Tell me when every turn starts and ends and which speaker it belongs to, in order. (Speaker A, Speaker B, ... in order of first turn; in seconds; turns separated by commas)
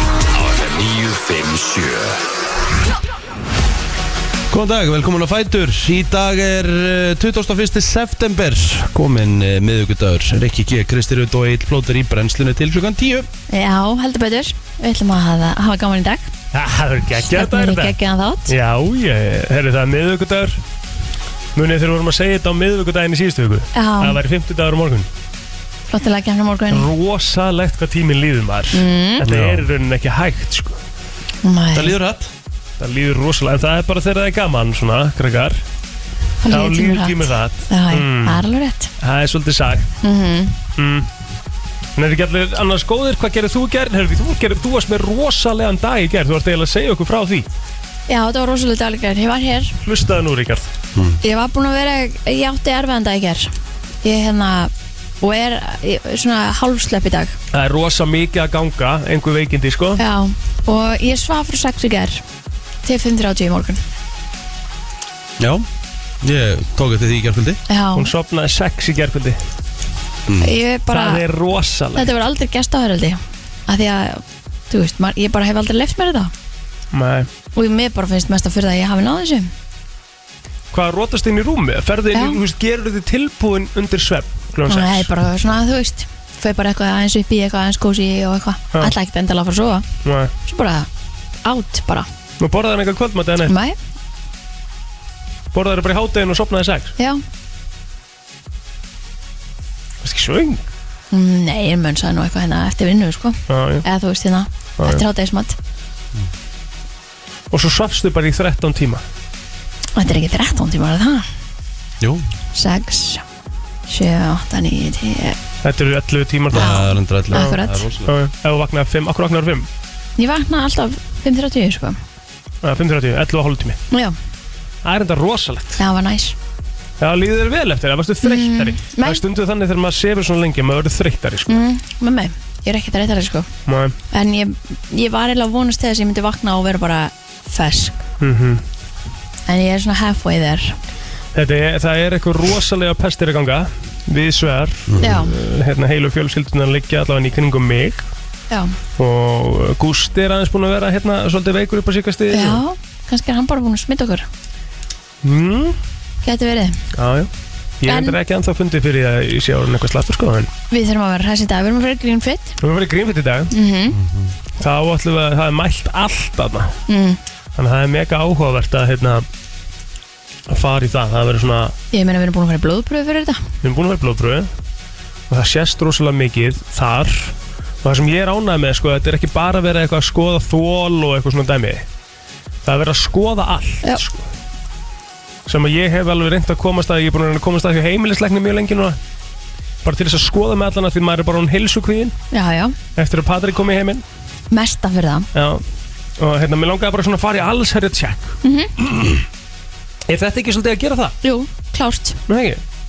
Speaker A: 0.3-2.2, Speaker A: 4.5-13.3, Speaker B: 13.5-16.3, Speaker C: 16.5-18.0, Speaker B: 17.1-18.5, Speaker C: 18.5-20.6, Speaker C: 21.6-25.1, Speaker B: 23.7-24.2, Speaker B: 25.9-26.9, Speaker C: 26.7-30.8, Speaker B: 28.7-29.2, Speaker A: 29.2-29.7, Speaker B: 31.4-32.0, Speaker A: 31.7-32.3, Speaker C: 32.8-35.6, Speaker B: 36.4-38.9, Speaker C: 36.5-38.5, Speaker C: 39.0-39.9, Speaker B: 40.0-40.6, Speaker C: 40.8-41.1, Speaker C: 42.0-47.5, Speaker B: 48.1-49.8, Speaker C: 49.8-50.7, Speaker A: 51.0-51.2, Speaker B: 51.2-53.5, Speaker B: 54.0-57.4, Speaker C: 57.5-60.0, Speaker B: 60.0-62.2, Speaker B: 62.8-63.8, Speaker A: 65.4-65.7, Speaker A: 66.2-67.6, Speaker B: 67.7-68.1, Speaker C: 68.0-69.4, Speaker A: 70.3-70.5, Speaker B: 70.4-71.2, Speaker C: 70.9-72.1, Speaker B: 72.0-76.3, Speaker C: 76.9-77.3, Speaker B: 77.6-79.5, Speaker C: 80.7-85.1, Speaker B: 84.7-89.8, Speaker C: 90.0-90.3, Speaker B: 90.5-90.9, Speaker B: 91.5-92.1, Speaker C: 92.4-93.5, Speaker B: 93.5-93.8, Speaker C: 95.5-96.9, Speaker C: 100.0-100.7, Speaker B: 101.1-105.6, Speaker C: 103.5-103.8, Speaker C: 107.5-109.0, Speaker B: 110.0-111.3, Speaker B: 112.5-113.2, Speaker B: 113.9-115.4, Speaker C: 115.6-117.5, Speaker A: 116.5-118.1, Speaker B: 116.5-117.9, Speaker C: 118.0-119.7, Speaker B: 120.2-122.0, Speaker C: 122.6-123.8, Speaker B: 123.9-124.2, Speaker C: 124.8-125.8, Speaker B: 125.8-126.4, Speaker C: 127.0-131.6, Speaker B: 128.2-129.2, Speaker B: 131.5-133.5, Speaker C: 133.7-134.0, Speaker B: 134.1-138.0, Speaker C: 138.2-138.6, Speaker B: 139.5-140.8, Speaker C: 141.3-148.1, Speaker A: 144.9-145.2, Speaker B: 145.0-145.3, Speaker C: 149.0-152.6, Speaker B: 152.3-154.3, Speaker C: 155.2-155.8, Speaker B: 156.2-156.8, Speaker C: 157.0-157.3, Speaker C: 157.8-160.5, Speaker B: 157.9-158.2, Speaker B: 160.7-162.6, Speaker C: 162.6-163.5, Speaker B: 163.5-164.0, Speaker A: 164.0-164.3, Speaker C: 164.6-166.8, Speaker B: 166.9-167.2, Speaker C: 167.6-169.3, Speaker C: 170.5-171.8, Speaker B: 171.9-173.4, Speaker C: 173.6-174.5, Speaker C: 175.3-181.8, Speaker C: 182.7-184.2, Speaker C: 185.5-189.0, Speaker C: 189.8-192.2, Speaker B: 192.3-192.8, Speaker C: 193.0-194.0, Speaker B: 194.5-195.3, Speaker C: 195.3-195.6, Speaker C: 196.2-198.4, Speaker B: 198.4-198.7, Speaker C: 200.1-201.2, Speaker B: 201.2-202.2, Speaker C: 202.3-202.6